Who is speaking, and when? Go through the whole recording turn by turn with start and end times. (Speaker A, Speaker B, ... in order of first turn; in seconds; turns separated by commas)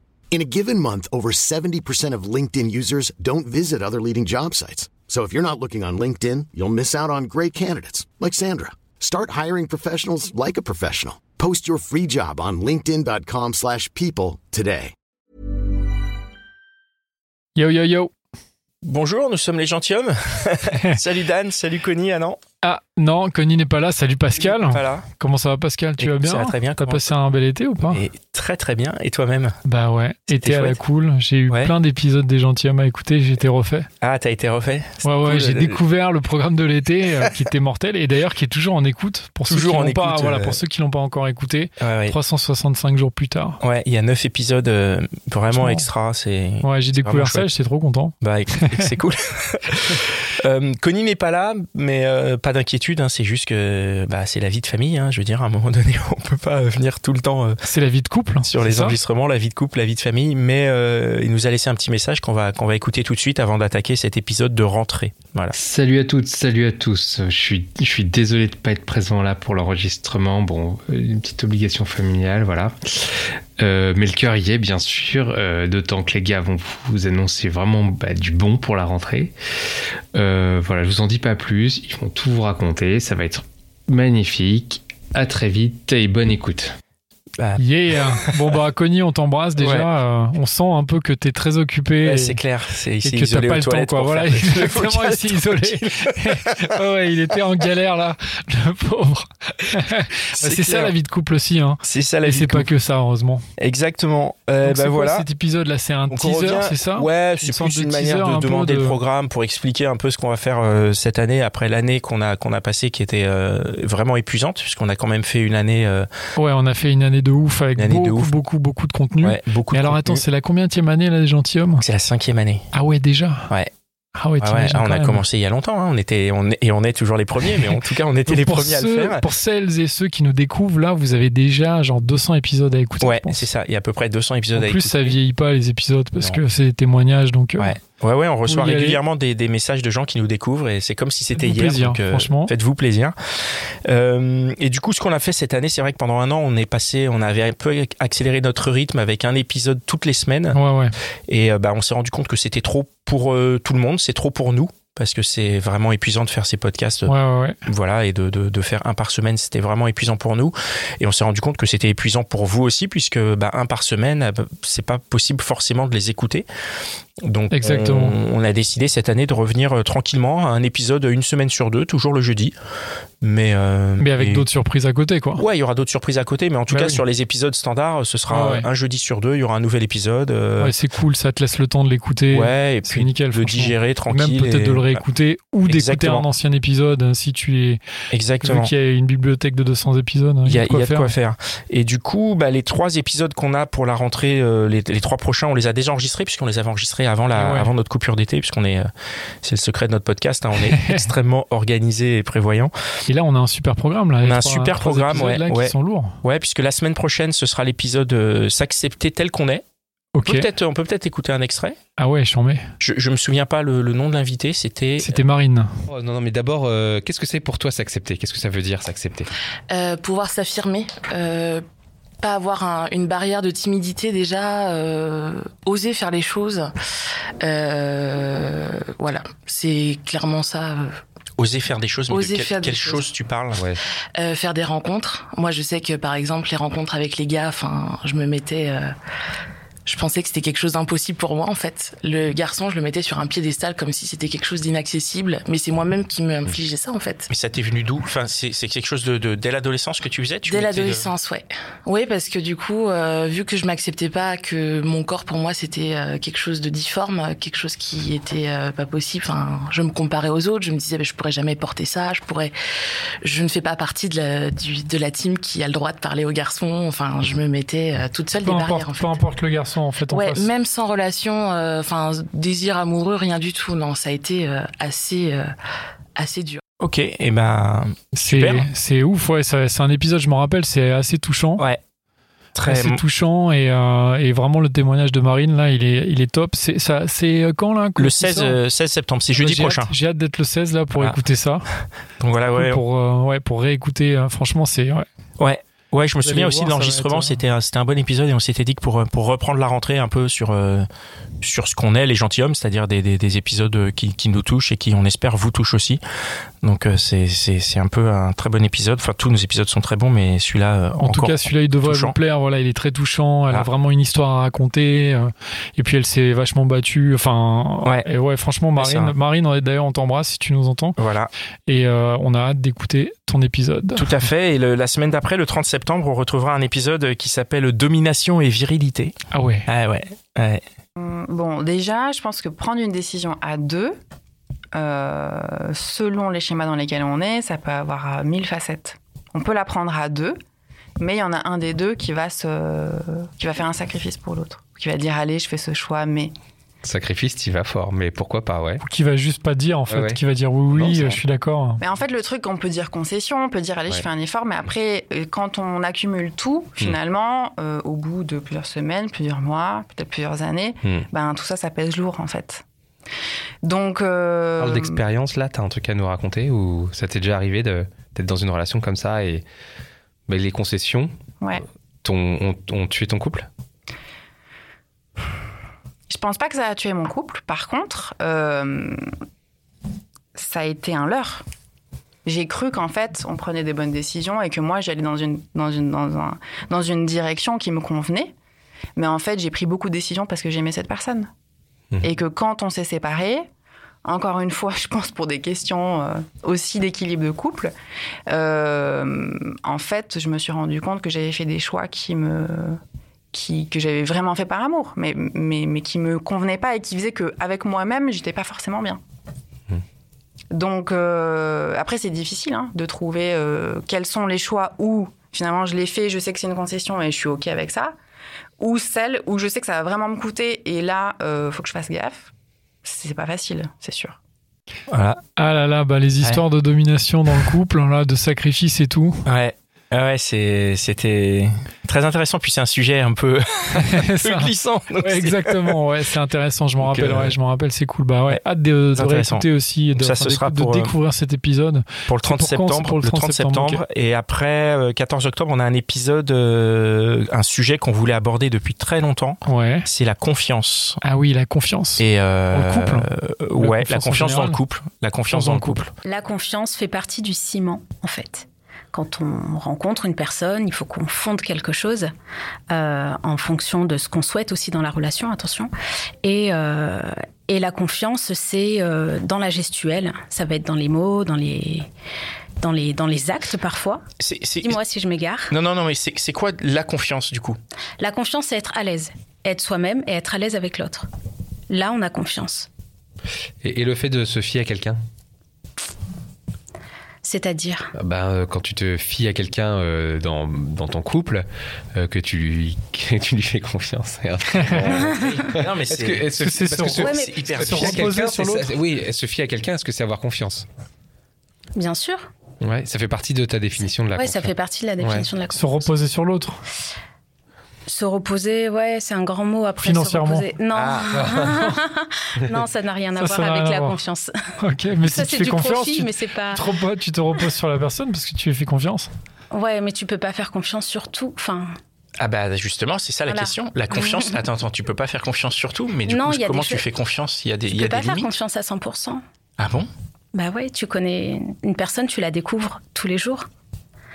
Speaker A: 0.3-14.9, Speaker B: 17.6-18.1, Speaker C: 18.8-22.4, Speaker B: 20.7-21.0, Speaker B: 22.6-28.0, Speaker C: 24.4-25.1, Speaker C: 26.0-27.1, Speaker C: 27.9-29.6, Speaker B: 29.6-33.9, Speaker C: 30.3-30.8, Speaker C: 34.0-35.8, Speaker B: 35.0-43.6, Speaker C: 39.5-40.6, Speaker C: 41.8-42.1, Speaker C: 43.6-47.5, Speaker B: 45.5-45.9, Speaker B: 46.6-48.6, Speaker C: 48.2-57.6, Speaker B: 57.6-59.0, Speaker C: 58.4-65.5, Speaker D: 65.5-79.3, Speaker D: 80.1-86.8, Speaker B: 87.6-92.4, Speaker C: 89.6-89.9, Speaker C: 92.0-96.6, Speaker B: 93.0-103.4, Speaker C: 100.3-100.9, Speaker C: 101.8-102.7, Speaker C: 103.6-105.2, Speaker B: 104.6-109.0, Speaker C: 106.1-116.1, Speaker B: 116.4-121.8, Speaker C: 117.8-118.3, Speaker C: 119.2-120.2, Speaker C: 121.8-122.6, Speaker B: 122.7-123.5, Speaker B: 124.2-125.2, Speaker C: 124.4-129.2, Speaker B: 127.4-127.7, Speaker B: 128.2-133.4, Speaker C: 133.0-135.2, Speaker B: 134.5-137.7, Speaker C: 137.6-143.1, Speaker B: 138.5-139.0, Speaker B: 141.3-142.5, Speaker C: 143.8-150.6, Speaker B: 150.5-150.9, Speaker C: 151.3-157.1, Speaker B: 157.1-157.6, Speaker C: 157.7-166.5, Speaker C: 167.2-172.5, Speaker B: 167.5-168.2, Speaker C: 173.2-174.4, Speaker B: 174.0-175.4, Speaker C: 175.4-180.7, Speaker B: 176.7-177.0, Speaker B: 178.3-178.7, Speaker B: 180.6-187.8, Speaker C: 182.3-185.0, Speaker C: 185.7-186.3, Speaker C: 188.1-188.7, Speaker B: 188.4-191.1, Speaker C: 190.4-198.9, Speaker B: 197.3-197.7, Speaker C: 199.4-202.7, Speaker B: 200.7-201.1, Speaker B: 203.1-206.2, Speaker C: 204.2-209.6, Speaker B: 210.1-210.4, Speaker C: 210.2-211.8, Speaker B: 212.0-212.7, Speaker C: 212.8-215.2, Speaker B: 215.0-215.8, Speaker D: 215.9-219.3, Speaker E: 219.7-221.6, Speaker E: 222.2-226.7, Speaker E: 227.4-231.0, Speaker C: 231.4-233.6, Speaker E: 232.1-233.1, Speaker D: 233.5-233.8, Speaker E: 234.2-238.9, Speaker E: 239.8-247.3, Speaker C: 247.3-251.1, Speaker E: 250.4-262.5, Speaker E: 263.2-269.2, Speaker B: 268.4-270.5, Speaker E: 270.1-275.5, Speaker E: 276.1-276.6, Speaker C: 276.8-278.7, Speaker B: 278.1-281.6, Speaker C: 282.5-283.0, Speaker B: 282.6-288.6, Speaker C: 288.0-289.9, Speaker B: 289.4-291.7, Speaker C: 292.2-292.8, Speaker B: 292.5-295.1, Speaker C: 295.4-300.9, Speaker B: 296.2-297.4, Speaker C: 301.4-306.0, Speaker C: 306.6-312.1, Speaker B: 311.0-321.0, Speaker C: 318.8-319.1, Speaker C: 321.0-321.3, Speaker B: 321.7-324.1, Speaker C: 323.9-329.1, Speaker B: 329.3-329.7, Speaker C: 329.7-330.6, Speaker F: 331.0-334.0, Speaker F: 334.7-340.4, Speaker F: 341.0-346.3, Speaker D: 346.8-348.8, Speaker B: 348.8-351.8, Speaker D: 349.9-350.2, Speaker D: 350.7-351.2, Speaker F: 351.8-362.6, Speaker F: 363.6-365.0, Speaker D: 364.6-369.4, Speaker D: 370.3-371.1, Speaker D: 372.0-373.5, Speaker F: 376.1-379.0, Speaker F: 380.3-381.4, Speaker F: 382.2-388.3, Speaker F: 388.9-391.3, Speaker F: 392.0-393.5, Speaker F: 394.0-397.7, Speaker F: 398.3-402.8, Speaker F: 403.3-409.0, Speaker F: 410.5-417.9, Speaker F: 418.6-422.3, Speaker F: 422.8-424.2, Speaker C: 424.9-425.2, Speaker B: 425.4-429.2, Speaker C: 429.2-435.8, Speaker B: 433.7-443.8, Speaker C: 436.8-437.4, Speaker C: 438.9-440.9, Speaker C: 442.1-451.0, Speaker B: 449.5-449.9, Speaker B: 451.0-453.1, Speaker C: 452.0-455.9, Speaker B: 453.6-454.6, Speaker B: 455.3-455.8, Speaker G: 456.0-462.1, Speaker G: 462.7-465.7, Speaker G: 466.2-471.9, Speaker G: 472.6-474.0, Speaker C: 474.2-474.8, Speaker G: 474.6-475.5, Speaker C: 475.5-477.6, Speaker G: 478.0-481.1, Speaker G: 481.7-482.7, Speaker D: 483.6-485.0, Speaker G: 487.2-487.9, Speaker D: 487.9-500.7, Speaker B: 494.5-494.9, Speaker C: 494.8-496.3, Speaker G: 494.9-495.4, Speaker B: 496.4-497.1, Speaker G: 497.0-497.4, Speaker C: 497.0-498.1, Speaker B: 497.6-498.7, Speaker G: 501.8-502.2, Speaker D: 502.6-505.3, Speaker G: 504.1-505.8, Speaker B: 505.5-506.6, Speaker G: 507.9-514.3, Speaker B: 509.8-510.5, Speaker D: 510.8-511.6, Speaker B: 513.1-514.0, Speaker B: 514.6-519.1, Speaker G: 515.0-516.6, Speaker G: 519.5-521.7, Speaker C: 522.2-528.3, Speaker G: 523.3-524.4, Speaker G: 526.0-526.8, Speaker G: 527.7-529.2, Speaker C: 529.6-529.9, Speaker G: 530.3-533.5